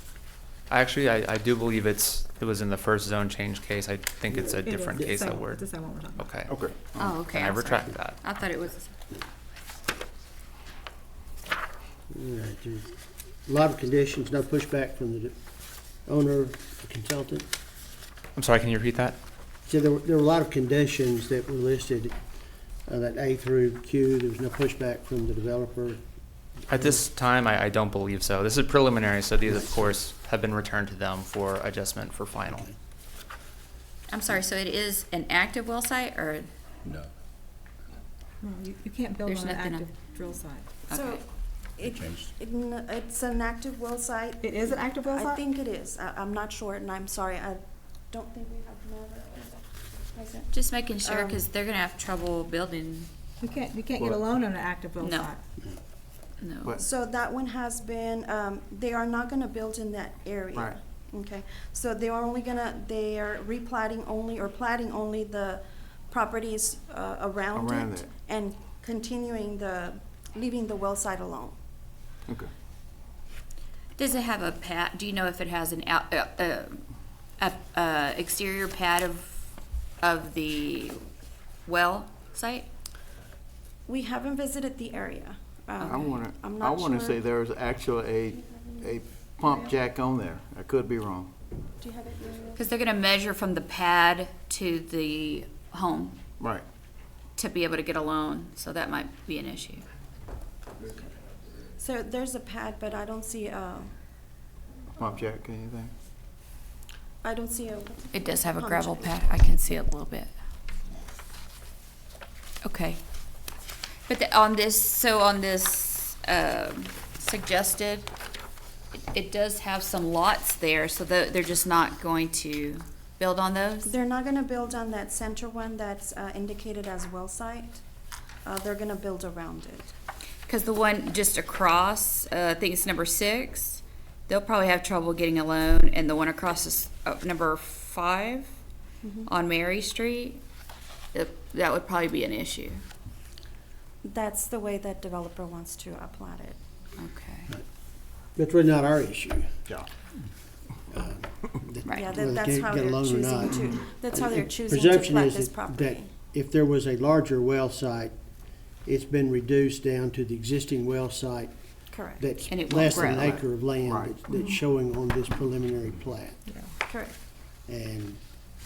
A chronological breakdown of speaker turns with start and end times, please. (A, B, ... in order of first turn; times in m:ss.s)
0:00.7-0:06.5 A
0:04.5-0:06.3 B
0:06.4-0:07.2 C
0:07.0-0:09.0 D
0:07.2-0:08.2 A
0:12.1-0:13.0 E
0:13.5-0:15.4 E
0:16.1-0:17.5 E
0:18.4-0:19.2 A
0:19.7-0:22.2 E
0:22.9-0:26.0 E
0:26.7-0:32.7 A
0:29.5-0:29.9 E
0:34.1-0:36.5 D
0:38.4-0:40.7 B
0:39.2-0:39.9 D
0:40.9-0:41.2 D
0:40.9-0:41.3 F
0:41.8-0:50.5 F
0:44.4-0:45.4 B
0:50.5-0:53.1 D
0:51.0-0:51.4 F
0:53.4-0:55.4 B
0:54.0-0:54.3 C
0:55.0-0:55.3 D
0:56.4-0:56.8 D
0:56.8-1:11.6 F
1:07.5-1:08.1 C
1:14.0-1:16.8 D
1:17.4-1:19.4 D
1:20.0-1:21.0 D
1:21.7-1:22.7 D
1:23.9-1:27.2 F
1:25.8-1:26.1 D
1:25.9-1:31.3 C
1:31.8-1:32.6 F
1:32.6-1:36.2 D
1:36.4-1:36.6 C
1:37.4-1:39.8 D
1:41.8-1:43.9 F
1:45.0-1:45.9 C
1:47.2-1:49.3 F
1:48.1-1:50.3 D
1:52.6-1:53.0 D
1:54.1-1:58.1 D
1:59.1-2:03.9 D
2:03.8-2:07.8 F
2:08.4-2:09.9 F
2:10.5-2:18.5 D
2:19.0-2:19.3 F
2:19.3-2:20.4 D
2:21.1-2:22.8 D
2:24.0-2:26.6 F
2:27.0-2:27.5 D
2:28.4-2:29.6 E
2:30.9-2:38.1 E
2:31.8-2:32.1 D
2:31.9-2:36.1 F
2:38.8-2:46.4 E
2:41.9-2:42.2 F
2:42.5-2:43.4 D
2:43.1-2:44.2 C
2:46.8-2:47.2 F
2:47.7-2:48.2 E